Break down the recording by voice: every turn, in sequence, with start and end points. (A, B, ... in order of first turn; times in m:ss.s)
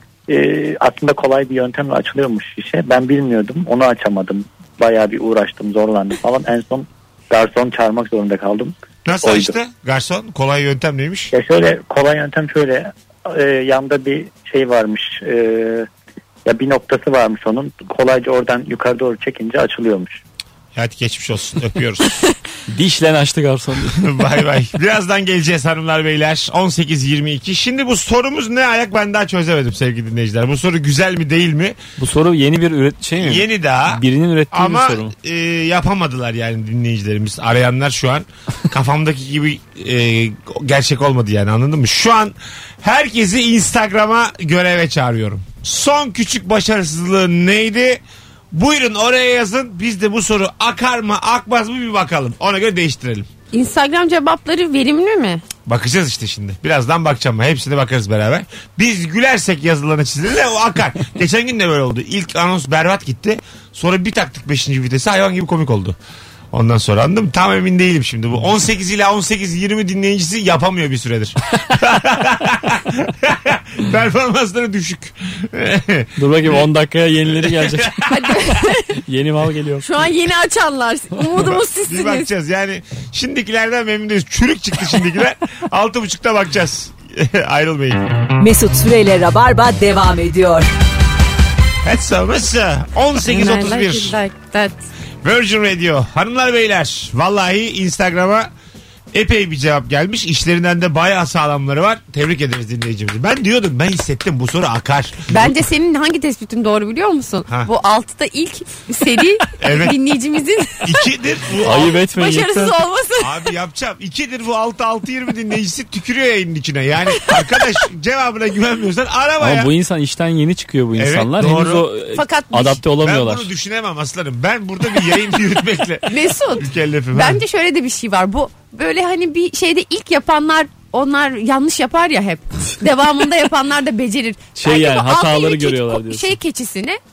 0:00.3-0:09.5 A
0:09.0-0:11.3 B
0:11.3-0:15.9 A
0:16.4-0:20.2 A
0:20.7-0:22.2 B
0:22.7-0:24.0 C
0:23.9-0:31.8 B
0:32.0-0:35.1 C
0:33.2-0:48.0 B
0:48.5-0:53.3 B
0:53.5-0:55.4 D
0:55.6-1:06.0 B
1:06.5-1:16.7 B
1:16.2-1:18.0 C
1:17.3-1:18.3 B
1:18.1-1:18.9 D
1:19.0-1:19.8 C
1:19.8-1:22.3 D
1:21.4-1:28.1 B
1:28.4-1:30.7 E
1:31.8-1:34.2 B
1:33.2-1:34.8 D
1:35.2-1:38.5 B
1:39.1-1:45.3 B
1:45.3-1:51.1 D
1:49.6-1:50.0 B
1:50.8-1:51.9 B
1:51.6-1:52.8 C
1:51.6-1:53.5 D
1:53.2-1:59.7 B
1:59.4-2:03.5 C
2:01.0-2:01.8 B
2:02.1-2:02.8 D
2:03.0-2:07.4 B
2:06.1-2:17.0 D
2:14.6-2:16.3 C